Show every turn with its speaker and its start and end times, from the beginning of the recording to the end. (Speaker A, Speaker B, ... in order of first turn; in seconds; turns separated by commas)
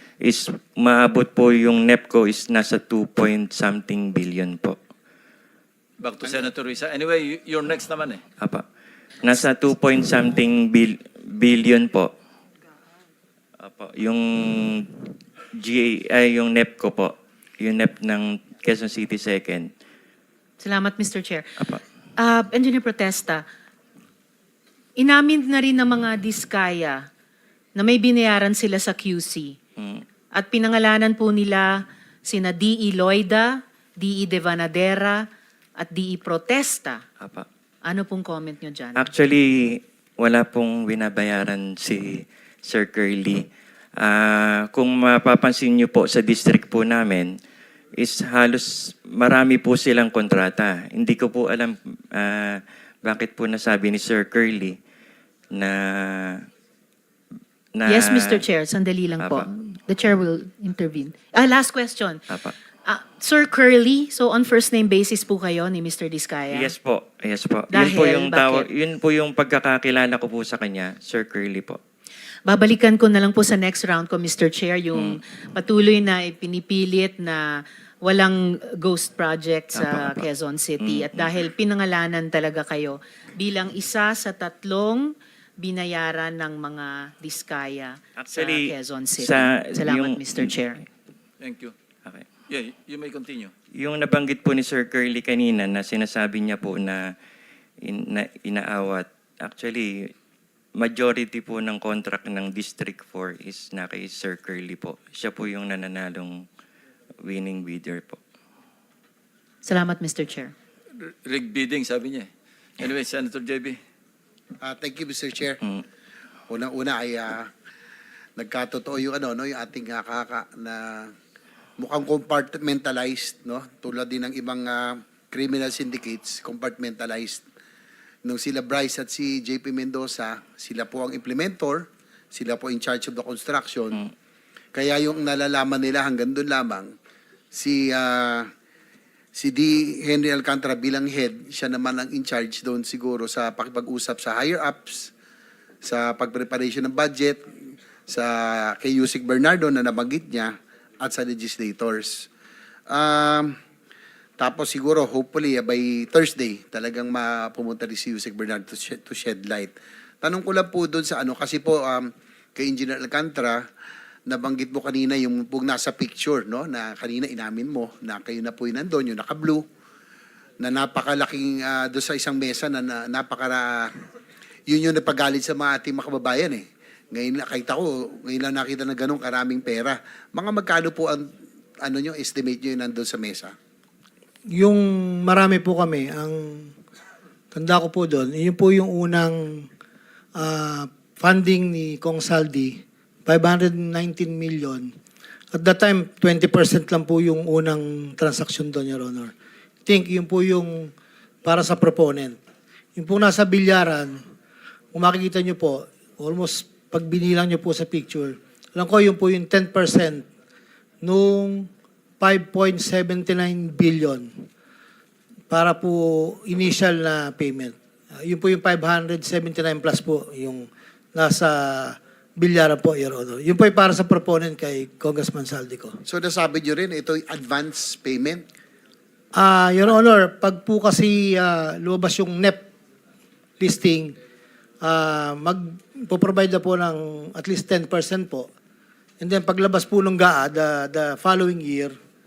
Speaker A: 0.2-4.8, Speaker B: 6.0-8.2, Speaker A: 9.2-12.1, Speaker A: 13.6-14.9, Speaker A: 15.6-19.7, Speaker C: 20.6-21.6, Speaker C: 22.2-23.4, Speaker C: 25.0-27.1, Speaker C: 27.8-29.6, Speaker A: 29.8-30.0, Speaker C: 30.3-35.3, Speaker C: 35.8-37.0, Speaker A: 37.2-37.5, Speaker C: 37.9-39.0, Speaker A: 39.0-43.5, Speaker A: 44.0-47.3, Speaker A: 48.0-54.8, Speaker A: 55.5-56.4, Speaker A: 57.8-58.4, Speaker C: 57.9-62.2, Speaker A: 59.2-59.5, Speaker C: 62.9-66.7, Speaker A: 66.5-71.8, Speaker C: 67.7-68.7, Speaker C: 72.5-77.4, Speaker C: 78.0-90.8, Speaker A: 79.8-80.3, Speaker A: 80.8-81.3, Speaker A: 88.2-90.5, Speaker B: 91.4-91.7, Speaker B: 92.5-93.5, Speaker A: 93.8-97.0, Speaker A: 97.8-99.9, Speaker A: 100.8-106.4, Speaker A: 107.2-108.2, Speaker C: 109.7-110.5, Speaker B: 111.0-113.8, Speaker D: 114.6-115.6, Speaker D: 116.5-117.5, Speaker D: 118.4-121.1, Speaker D: 121.8-127.4, Speaker D: 128.2-134.1, Speaker D: 134.7-136.9, Speaker D: 137.5-138.5, Speaker D: 139.3-145.1, Speaker D: 145.8-147.4, Speaker D: 148.1-152.3, Speaker D: 152.9-153.5, Speaker D: 154.4-163.6, Speaker D: 164.3-169.7, Speaker D: 170.6-173.9, Speaker D: 174.7-181.3, Speaker D: 181.8-183.5, Speaker E: 184.5-186.7, Speaker E: 187.5-189.7, Speaker E: 190.4-194.9, Speaker E: 195.5-199.3, Speaker E: 199.9-200.9, Speaker E: 201.4-202.4, Speaker E: 203.0-204.2, Speaker E: 204.9-210.3, Speaker E: 211.0-211.7, Speaker E: 212.2-214.4, Speaker E: 215.5-226.0, Speaker D: 226.1-228.4, Speaker E: 229.3-232.7, Speaker E: 233.6-234.2, Speaker E: 234.8-238.5, Speaker E: 239.2-242.0